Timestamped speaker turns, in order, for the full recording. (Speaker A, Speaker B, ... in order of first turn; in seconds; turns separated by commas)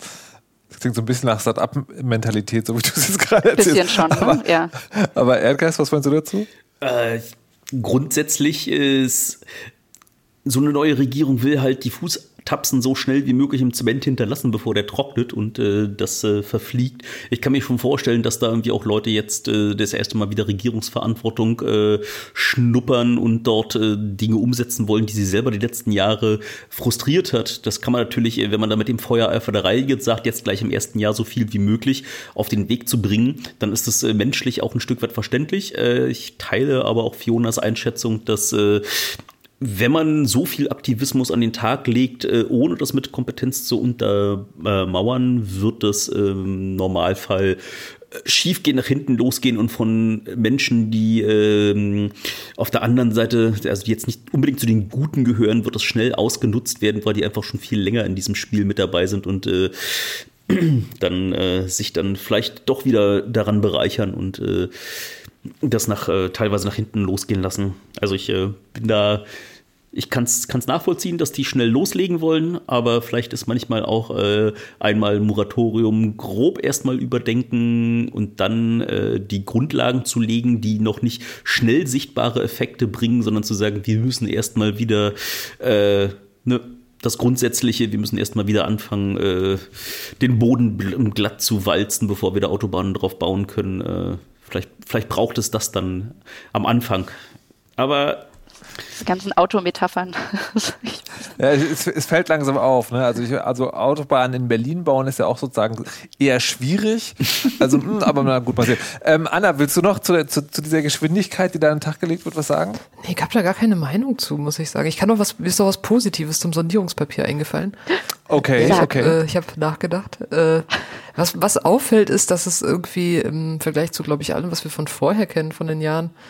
Speaker A: 0.7-6.5, Speaker B: 3.5-4.7, Speaker C: 6.8-9.4, Speaker C: 10.4-47.6, Speaker C: 48.1-65.1, Speaker C: 65.6-69.2, Speaker C: 69.9-97.2, Speaker C: 97.8-98.3, Speaker B: 99.0-101.1, Speaker A: 101.4-112.8, Speaker D: 113.0-117.8, Speaker A: 118.3-119.2, Speaker D: 118.3-126.1